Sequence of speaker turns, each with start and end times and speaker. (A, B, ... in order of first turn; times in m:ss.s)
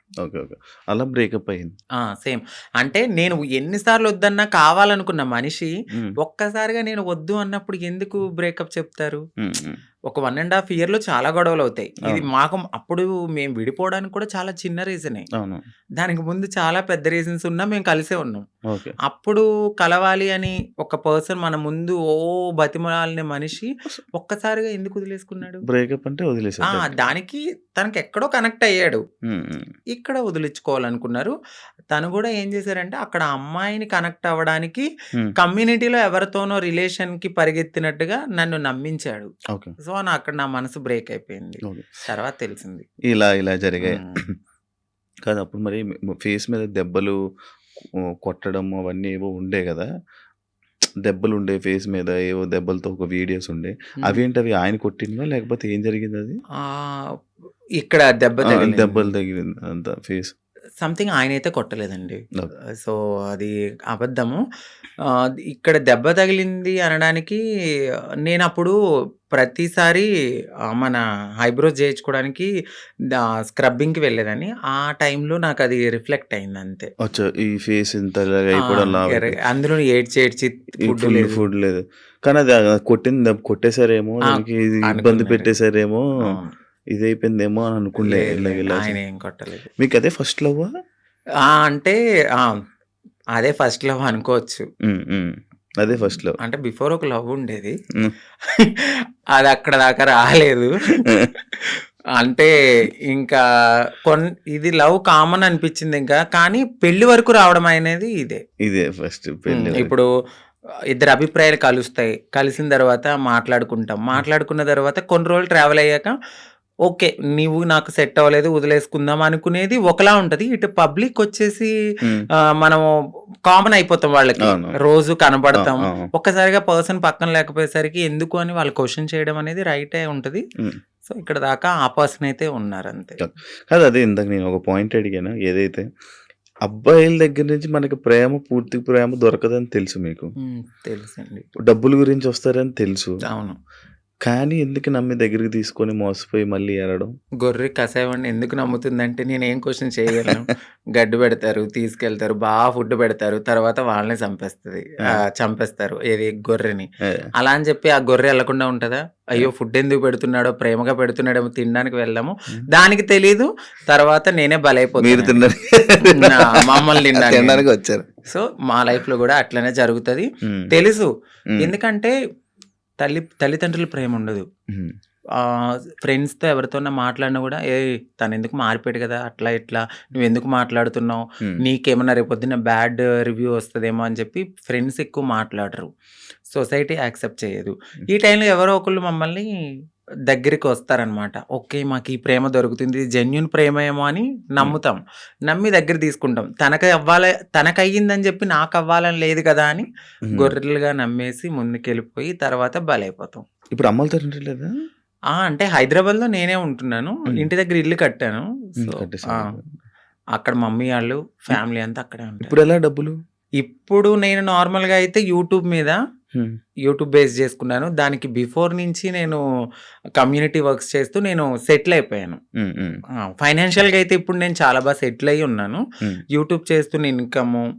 0:00.2-0:01.7 A
0:02.1-0:09.2 B
0:09.4-0:09.8 A
0:10.1-0:15.2 B
0:16.0-0:18.4 B
0:18.7-0:18.9 A
0:19.0-0:25.6 B
0:25.6-0:27.0 A
0:26.6-0:29.0 B
0:29.3-0:29.7 A
0:29.9-0:31.3 B
0:31.9-0:34.8 B
0:35.4-0:42.8 B
0:43.1-0:44.3 A
0:43.8-0:44.2 B
0:45.2-0:47.2 A
0:47.8-0:49.9 A
0:51.0-0:56.4 A
0:56.6-0:57.0 B
0:57.8-0:59.1 B
0:58.5-1:00.3 A
1:00.8-1:02.2 B
1:02.8-1:04.4 B
1:05.5-1:07.4 B
1:08.2-1:08.7 B
1:09.3-1:10.1 B
1:10.7-1:12.5 B
1:13.5-1:16.9 B
1:17.0-1:19.4 A
1:18.6-1:21.4 B
1:20.8-1:26.0 A
1:24.3-1:25.5 B
1:26.9-1:29.0 A
1:28.0-1:29.7 B
1:29.8-1:30.7 A
1:31.5-1:32.6 B
1:33.4-1:34.6 B
1:34.8-1:36.3 A
1:36.4-1:37.7 B
1:38.5-1:42.5 B
1:43.1-1:43.4 B
1:44.0-1:48.4 B
1:48.6-1:49.9 A
1:49.5-1:50.1 B
1:50.9-1:56.1 B
1:56.9-2:01.7 B
2:02.6-2:02.9 B
2:03.5-2:10.4 B
2:04.4-2:04.7 A
2:05.5-2:06.1 A
2:11.0-2:13.2 B
2:13.2-2:15.8 A
2:16.6-2:20.3 A
2:20.4-2:21.4 B
2:21.6-2:23.1 A
2:23.2-2:23.6 B
2:24.2-2:27.1 A
2:27.4-2:45.5 B
2:45.0-2:48.1 A
2:46.0-2:47.6 B
2:48.3-2:52.1 B
2:53.0-2:54.4 B
2:55.4-3:05.9 B
3:06.5-3:09.4 B
3:10.3-3:23.4 B
3:20.3-3:20.5 A
3:23.7-3:24.7 A
3:25.3-3:29.5 B
3:28.8-3:29.7 A
3:30.4-3:32.5 B
3:32.4-3:33.1 A
3:33.6-3:36.0 B
3:36.9-3:39.4 B
3:40.2-3:42.4 B
3:42.6-3:43.0 A
3:43.2-3:45.8 B
3:46.3-3:47.6 B